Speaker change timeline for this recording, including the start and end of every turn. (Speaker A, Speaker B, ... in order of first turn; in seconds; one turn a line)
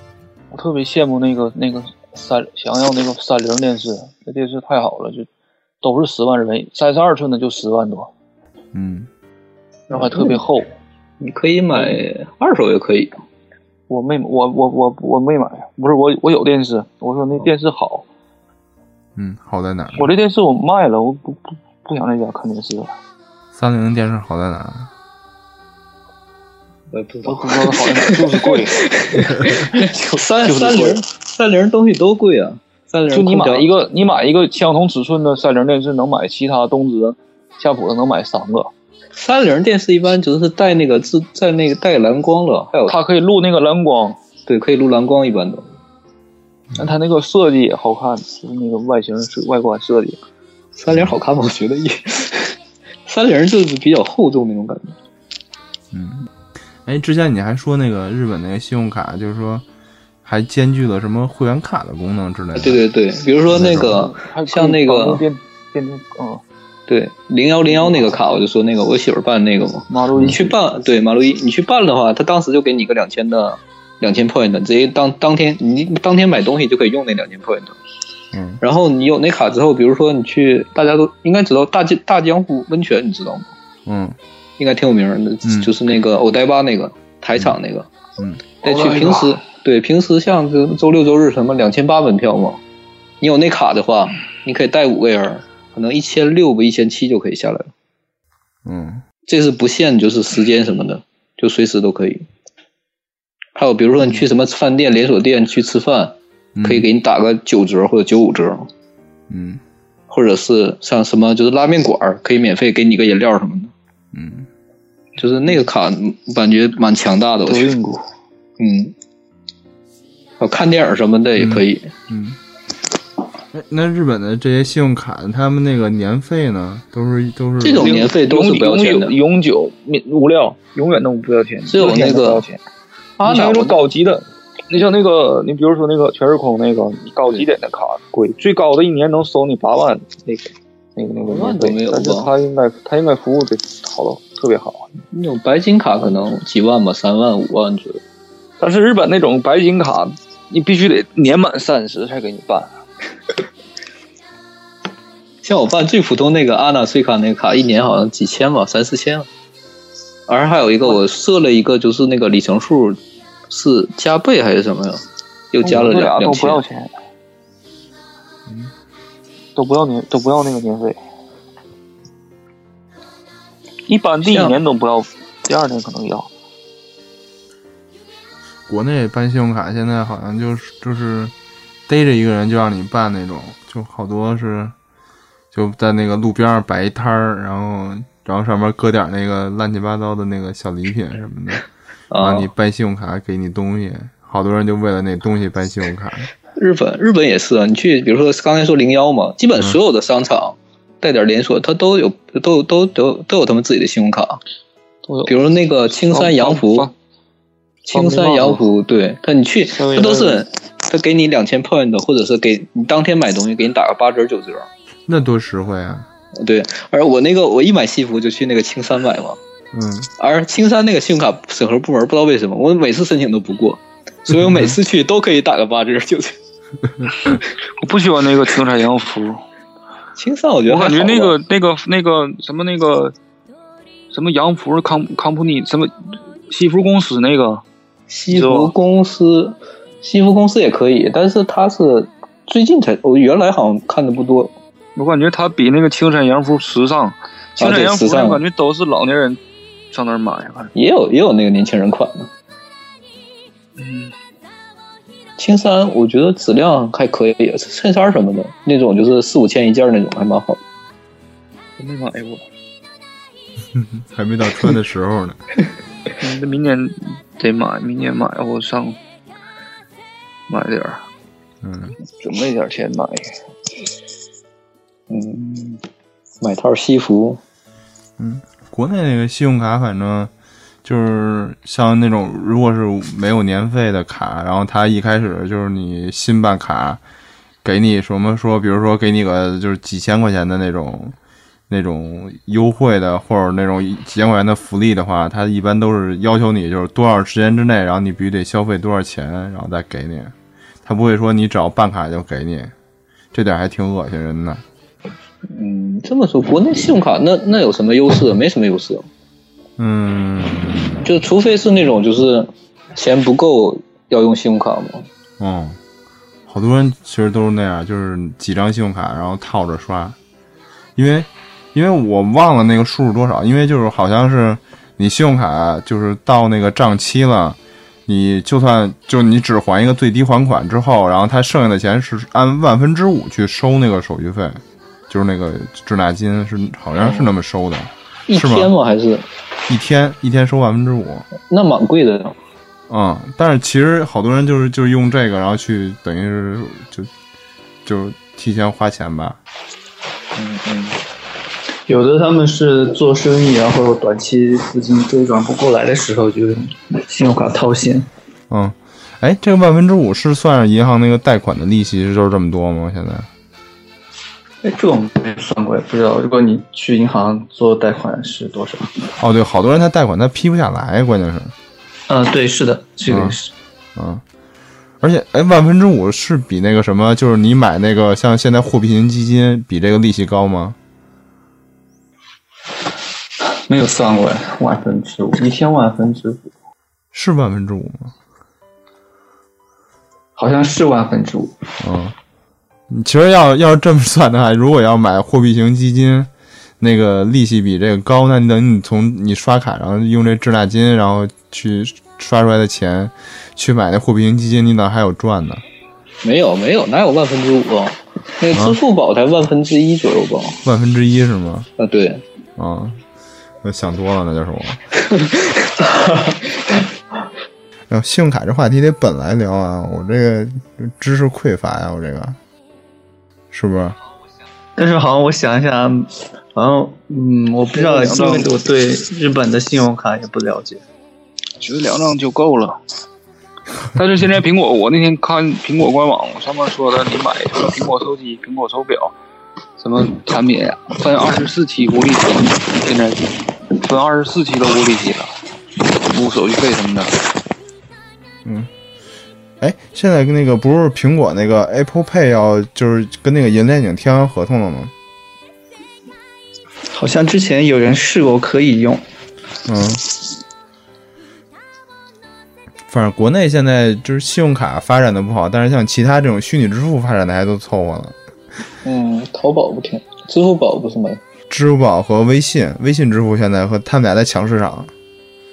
Speaker A: 0.5-5.3
Speaker A: 5.8-8.1
Speaker B: 8.7-9.1
Speaker C: 9.9-10.4
Speaker A: 9.9-10.7
Speaker C: 11.2-13.2
Speaker A: 11.7-12.0
Speaker A: 13.9-18.1
Speaker B: 19.2-20.1
Speaker A: 19.9-22.9
Speaker B: 23.6-24.9
Speaker C: 26.9-33.7
Speaker A: 27.3-31.0
Speaker A: 33.1-38.7
Speaker C: 39.2-43.0
Speaker A: 42.9-44.2
Speaker C: 44.5-45.7
Speaker A: 46.8-50.2
Speaker C: 50.8-55.0
Speaker B: 55.9-56.3
Speaker B: 56.9-59.6
Speaker B: 60.2-62.8
Speaker C: 62.6-65.2
Speaker B: 63.5-64.0
Speaker A: 63.7-66.4
Speaker C: 66.9-77.8
Speaker A: 67.7-68.2
Speaker A: 69.9-70.5
Speaker B: 78.3-78.6
Speaker C: 78.6-83.5
Speaker B: 83.9-84.2
Speaker C: 84.6-87.9
Speaker B: 85.4-85.7
Speaker C: 88.6-92.6
Speaker A: 88.7-89.3
Speaker C: 93.2-97.7
Speaker B: 98.7-99.0
Speaker C: 99.3-102.2
Speaker C: 103.6-108.7
Speaker B: 106.6-106.9
Speaker B: 109.3-109.6
Speaker C: 110.1-113.7
Speaker B: 114.1-114.5
Speaker C: 115.2-117.7
Speaker A: 117.5-118.0
Speaker C: 118.6-118.9
Speaker C: 120.4-121.9
Speaker B: 121.4-122.4
Speaker B: 123.5-128.1
Speaker C: 127.6-129.2
Speaker A: 127.8-132.6
Speaker C: 131.7-132.5
Speaker C: 133.2-133.8
Speaker A: 133.2-144.9
Speaker C: 141.2-142.3
Speaker C: 145.1-148.0
Speaker A: 148.6-152.7
Speaker C: 155.4-159.3
Speaker C: 160.3-166.6
Speaker A: 165.6-166.9
Speaker A: 169.6-171.0
Speaker A: 173.9-176.3
Speaker C: 174.2-174.6
Speaker B: 178.7-181.3
Speaker B: 181.9-184.8
Speaker B: 185.5-191.7
Speaker C: 192.1-192.5
Speaker B: 192.2-196.3
Speaker C: 196.6-204.4
Speaker A: 205.1-205.3
Speaker C: 205.3-206.9
Speaker A: 205.9-206.9
Speaker C: 207.9-214.7
Speaker A: 207.9-208.7
Speaker A: 209.7-210.4
Speaker B: 215.1-216.1
Speaker C: 216.4-219.4
Speaker B: 219.7-220.1
Speaker C: 220.2-226.3
Speaker B: 224.3-224.8
Speaker A: 227.8-229.4
Speaker C: 230.2-231.4
Speaker A: 230.7-233.2
Speaker A: 234.1-235.9
Speaker A: 236.5-237.6
Speaker C: 238.1-244.5
Speaker A: 238.3-238.7
Speaker A: 245.0-249.4
Speaker C: 247.6-248.4
Speaker A: 249.9-250.7
Speaker C: 250.8-252.3
Speaker A: 253.8-254.1
Speaker C: 255.4-260.6
Speaker A: 261.8-262.4
Speaker B: 263.8-265.4
Speaker A: 266.2-269.0
Speaker A: 270.5-271.0
Speaker B: 271.6-272.0
Speaker A: 272.1-273.4
Speaker C: 275.1-275.8
Speaker C: 276.4-277.4
Speaker B: 278.2-280.3
Speaker B: 280.8-287.0
Speaker B: 287.6-291.2
Speaker B: 291.7-300.3
Speaker B: 300.9-302.7
Speaker B: 303.3-304.6
Speaker C: 305.5-309.1
Speaker B: 309.8-311.0
Speaker C: 311.0-315.1
Speaker B: 315.4-315.8
Speaker B: 316.5-320.2
Speaker B: 321.0-338.7
Speaker C: 337.0-337.3
Speaker C: 338.3-339.3
Speaker B: 339.7-341.3
Speaker C: 341.4-342.4
Speaker B: 342.9-347.1
Speaker B: 347.9-349.4
Speaker C: 350.4-351.0
Speaker D: 351.9-358.1
Speaker B: 358.5-363.3
Speaker D: 364.6-368.9
Speaker B: 369.2-371.5
Speaker D: 372.1-373.5
Speaker B: 373.1-373.4
Speaker B: 374.0-374.2
Speaker B: 375.0-380.8
Speaker D: 383.7-386.5
Speaker B: 387.1-388.1
Speaker D: 390.4-391.5
Speaker B: 391.8-392.1
Speaker B: 392.9-405.6
Speaker C: 406.2-410.6
Speaker B: 408.5-408.8
Speaker B: 410.6-411.7
Speaker C: 411.8-412.2
Speaker B: 412.6-413.0
Speaker B: 413.6-414.8
Speaker D: 415.7-416.8
Speaker B: 417.9-422.4
Speaker B: 423.5-424.0
Speaker D: 424.8-430.8
Speaker A: 427.8-428.5
Speaker A: 431.6-432.8
Speaker A: 433.9-439.1
Speaker A: 439.8-445.4
Speaker A: 445.9-447.2
Speaker B: 448.4-448.7
Speaker B: 449.6-454.9
Speaker D: 456.9-459.0
Speaker B: 459.7-460.0
Speaker B: 462.9-468.2
Speaker C: 468.8-471.2
Speaker B: 471.5-474.9